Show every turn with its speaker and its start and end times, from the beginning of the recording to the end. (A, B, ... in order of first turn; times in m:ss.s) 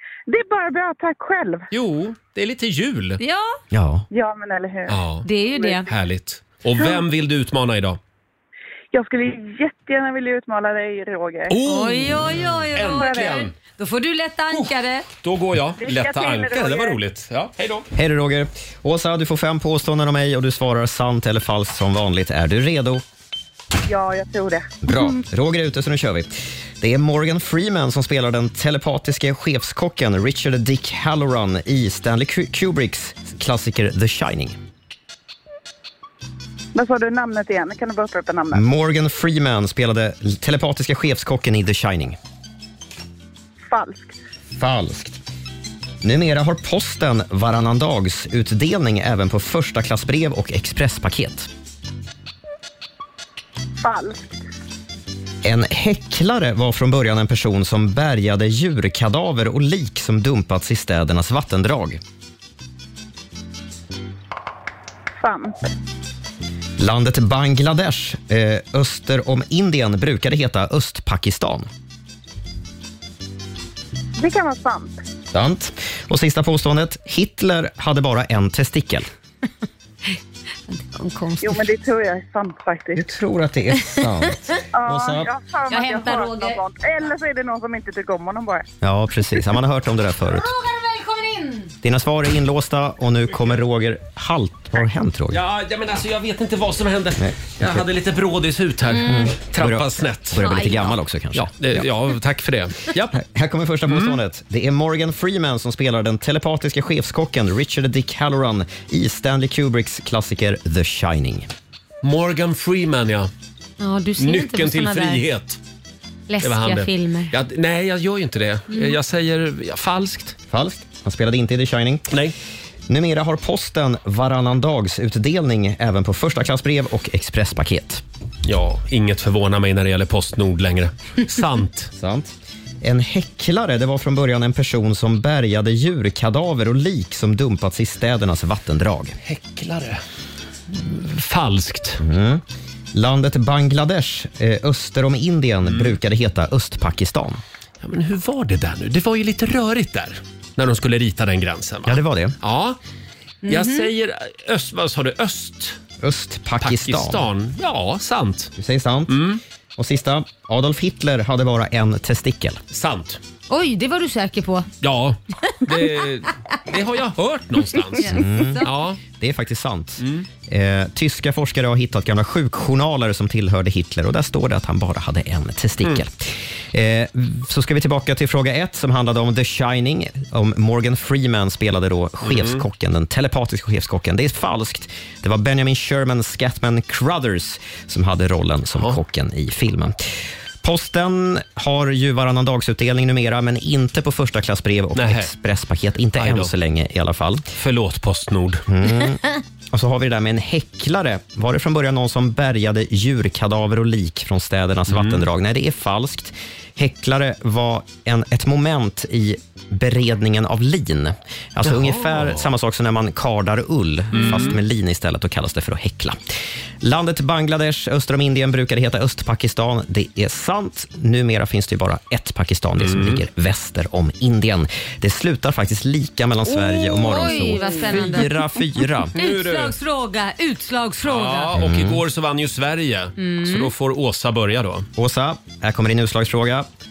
0:00.3-0:01.7 A
0:01.7-0:03.2 B
0:03.2-0:03.6 C
0:03.7-0:04.0 D
0:04.1-0:05.8 A
0:04.9-0:05.3 B
0:05.2-0:05.9 C
0:05.8-0:08.0 B
0:08.9-0:11.6 A
0:11.5-0:13.5 B
0:11.6-0:15.0 C
0:12.8-0:13.5 A
0:14.5-0:17.9 B
0:15.8-0:17.0 A
0:17.9-0:23.0 D
0:23.9-0:25.1 A
0:24.8-0:34.6 D
0:36.7-0:38.6 A
0:38.5-0:42.2 D
0:43.7-0:44.1 A
0:44.6-0:45.2 D
0:46.0-0:51.5 D
0:53.8-0:54.4 A
0:55.4-1:02.0 D
1:05.2-1:05.6 A
1:06.8-1:11.7 D
1:14.2-1:15.0 A
1:15.3-1:19.1 D
1:20.7-1:21.7 C
1:21.4-1:23.1 A
1:22.9-1:25.3 D
1:24.7-1:28.6 A
1:25.7-1:26.6 C
1:28.8-1:30.5 D
1:30.3-1:31.7 C
1:31.8-1:35.4 D
1:35.3-1:40.4 B
1:37.2-1:37.8 D
1:38.9-1:39.3 C
1:39.0-1:41.9 D
1:40.4-1:41.0 C
1:41.3-1:43.2 B
1:43.1-1:51.5 D
1:43.9-1:44.2 B
1:52.0-1:53.3 B
1:53.8-1:55.2 C
1:54.2-1:55.6 B
1:56.3-1:57.3 C
1:56.4-2:00.4 B
1:58.7-1:59.0 C
2:00.5-2:02.1 D
2:02.9-2:08.0 D
2:08.4-2:11.9 B
2:12.0-2:19.2 D
2:19.2-2:20.0 B
2:20.7-2:22.0 B
2:22.0-2:22.4 D
2:22.9-2:27.4 D
2:25.6-2:26.0 B
2:27.8-2:32.8 B
2:31.8-2:32.4 D
2:33.4-2:33.9 C
2:33.5-2:35.8 B
2:36.0-2:37.2 D
2:36.6-2:38.5 B
2:38.6-2:39.2 D
2:39.1-2:39.4 B
2:39.8-2:42.6 D
2:42.7-2:43.2 B
2:43.5-2:44.7 C
2:44.8-2:49.0 B
2:47.9-2:48.7 C
2:48.0-3:10.0 D
2:50.0-2:50.3 B
3:02.2-3:02.6 B
3:10.6-3:17.4 D
3:14.9-3:15.3 B
3:16.2-3:16.5 B
3:17.6-3:18.6 B
3:18.7-3:36.2 D
3:24.9-3:25.2 B
3:31.6-3:32.4 B
3:34.1-3:34.6 B
3:36.8-3:49.1 D
3:42.8-3:43.2 B
3:46.5-3:48.3 C
3:49.2-3:49.7 B
3:49.2-3:51.5 C
3:51.0-3:54.9 B
3:51.5-3:52.0 D
3:53.2-3:53.7 C
3:55.0-3:56.7 D